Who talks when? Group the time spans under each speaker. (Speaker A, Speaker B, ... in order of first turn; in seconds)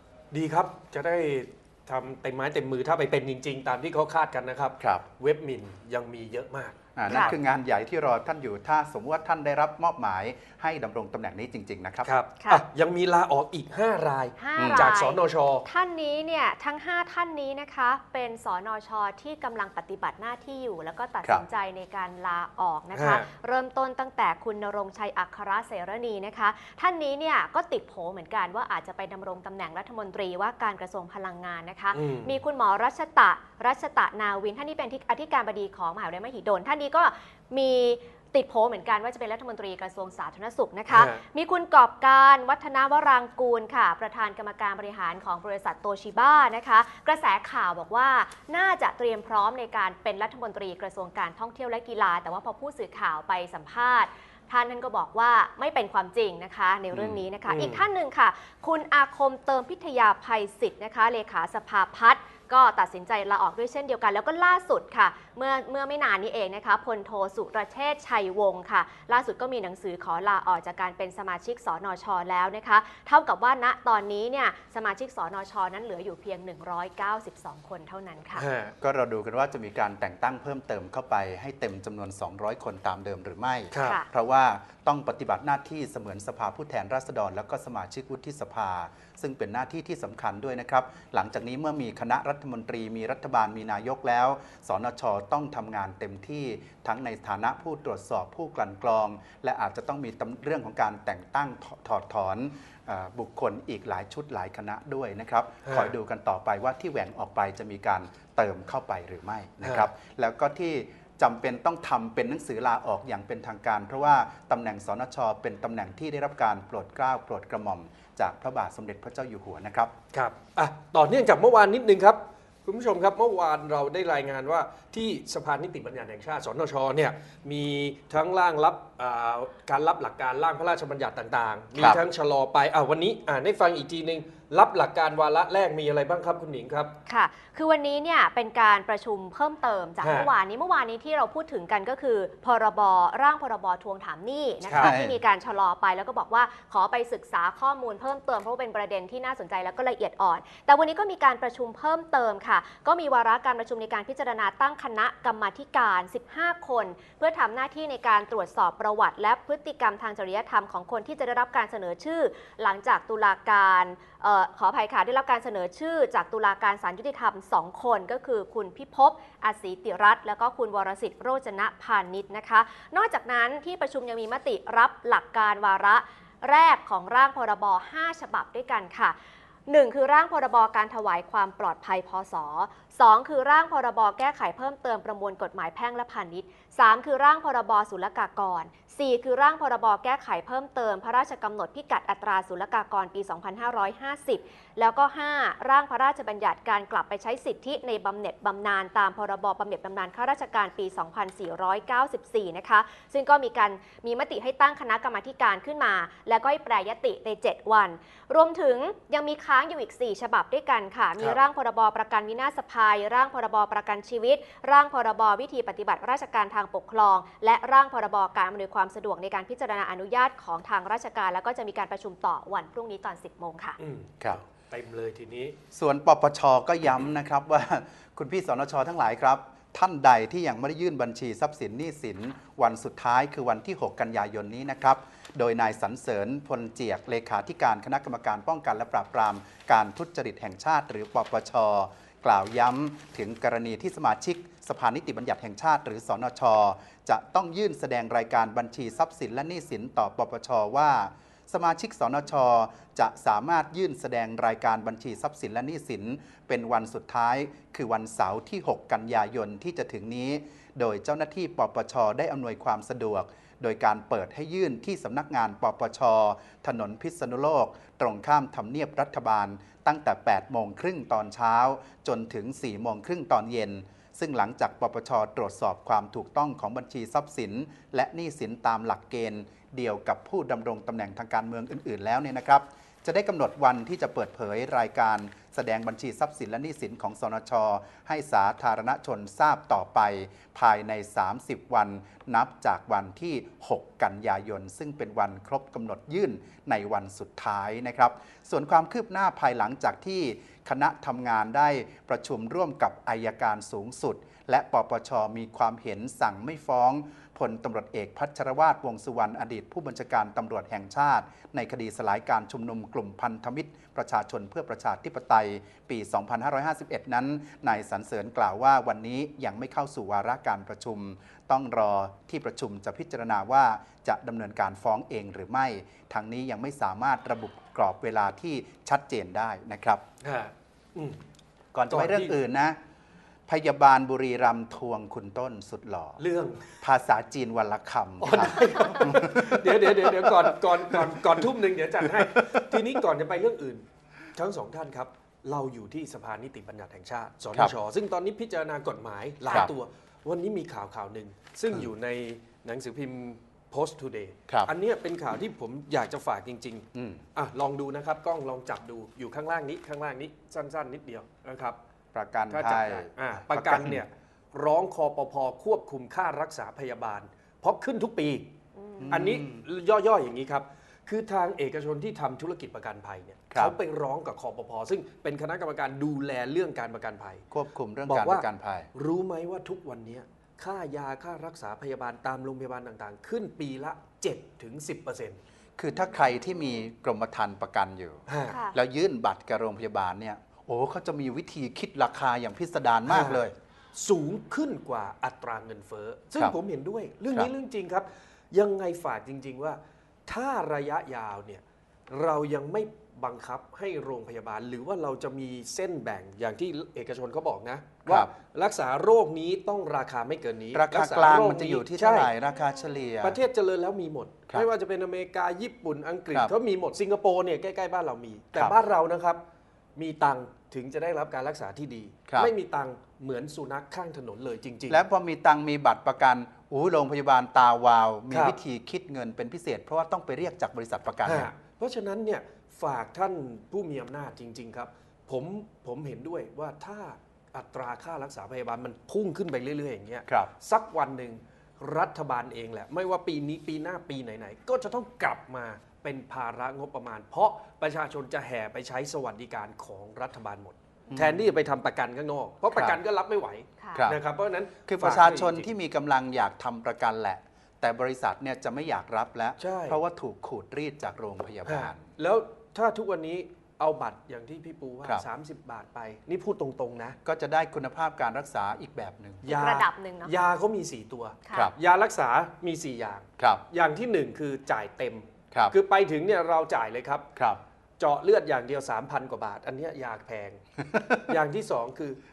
Speaker A: 0.3-7.3, 12.1-15.7, 22.9-23.3, 31.9-32.4, 40.9-41.2, 57.5-57.9, 78.4-78.7, 83.7-84.0, 105.7-105.9, 109.6-109.9, 120.1-136.9, 140.0-140.3, 144.7-144.9, 223.8-225.6, 330.2-331.2, 331.9-332.3, 336.2-336.6, 338.2-343.8, 344.4-361.8, 362.5-368.5, 369.1-377.4, 378.1-385.4, 388.3-388.6, 393.1-412.3, 413.2-419.4, 420.0-425.0, 428.3-428.6, 431.2-455.7, 459.6-460.0, 461.7-467.2, 469.4-477.3, 478.0-480.6, 481.2-482.2
Speaker B: 4.8-5.0, 7.0-12.1, 14.6-14.9, 56.9-57.2, 78.8-119.9, 131.8-132.0, 144.7-145.2, 225.7-330.0, 331.7-332.8, 333.5-336.2, 336.8-340.5, 356.9-357.2, 362.1-364.0, 369.0-369.6, 377.5-378.9, 385.8-393.5, 410.7-413.4, 424.9-431.5, 451.1-451.5, 452.7-453.0, 454.9-462.0, 467.2-469.5, 477.4-477.6
Speaker C: 7.1-7.3, 14.4-78.5, 137.1-223.8, 368.8-369.3, 388.5-388.8, 412.5-413.1, 453.8-454.1, 469.5-470.3